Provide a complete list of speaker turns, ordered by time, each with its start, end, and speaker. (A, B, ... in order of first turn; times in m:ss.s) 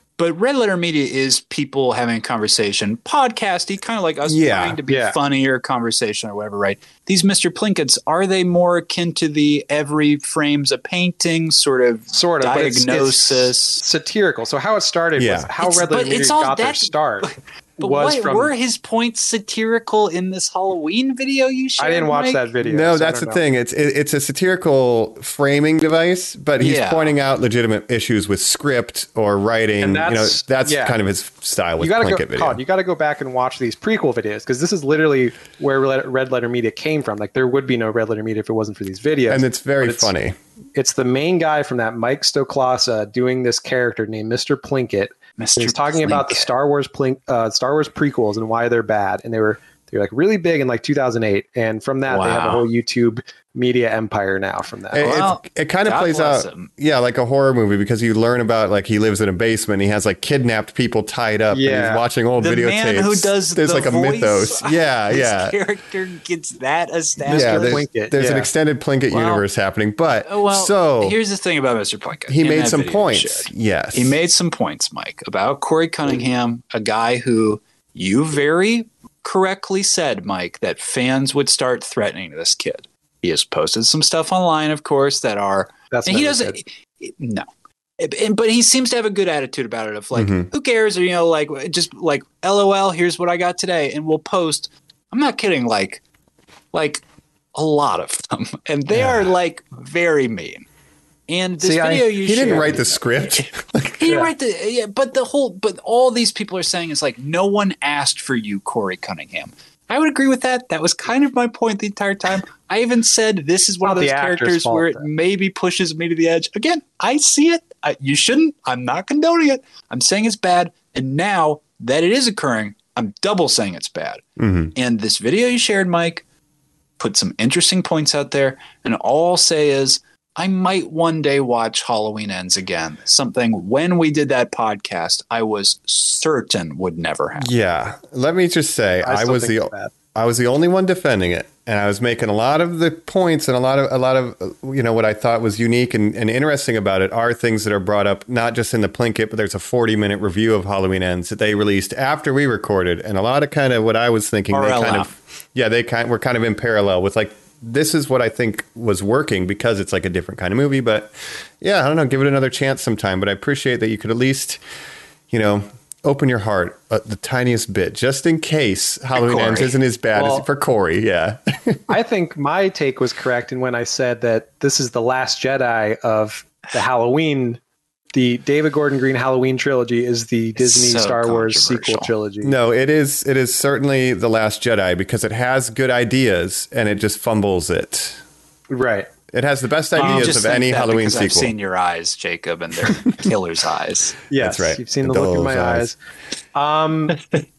0:00.2-0:13.8 A
0:04.2-0:04.8 B
0:04.9-0:05.2 C
0:12.1-0:18.5 C
0:15.2-0:15.5 B
0:15.6-0:22.4 A
0:21.8-0:23.4 C
0:22.6-0:32.6 B
0:26.6-0:27.1 A
0:29.8-0:31.0 C
0:31.8-0:40.1 C
0:39.3-0:40.4 B
0:40.7-0:55.2 C
0:45.4-0:46.5 A
0:52.1-0:52.6 A
0:54.9-1:05.6 B
0:55.0-0:56.7 A
1:01.5-1:02.0 C
1:02.4-1:07.8 A
1:07.2-1:11.2 B
1:07.3-1:08.5 C
1:09.1-1:09.4 A
1:10.2-1:27.5 A
1:12.3-1:14.2 B
1:25.9-1:26.6 C
1:28.0-1:36.0 A
1:30.1-1:30.5 B
1:36.7-1:37.0 A
1:37.5-1:40.6 A
1:39.0-1:39.3 B
1:41.3-1:42.9 A
1:41.6-1:42.8 C
1:42.2-1:44.3 B
1:44.0-2:04.2 A
1:53.8-1:55.0 C
2:04.4-2:04.7 B
2:04.7-2:06.2 A
2:07.0-2:17.5 A
2:17.4-2:44.6 B
2:19.0-2:19.9 C
2:34.5-2:35.1 A
2:45.3-2:52.0 B
2:49.1-2:49.8 A
2:50.1-2:50.4 C
2:51.9-2:57.6 C
2:58.1-3:02.6 C
3:00.6-3:02.1 A
3:02.4-3:08.2 B
3:08.7-3:09.1 C
3:09.3-3:11.5 B
3:10.0-3:14.2 A
3:10.0-3:10.4 C
3:14.3-3:16.0 C
3:14.4-3:15.9 B
3:16.5-3:17.2 C
3:17.1-3:17.4 A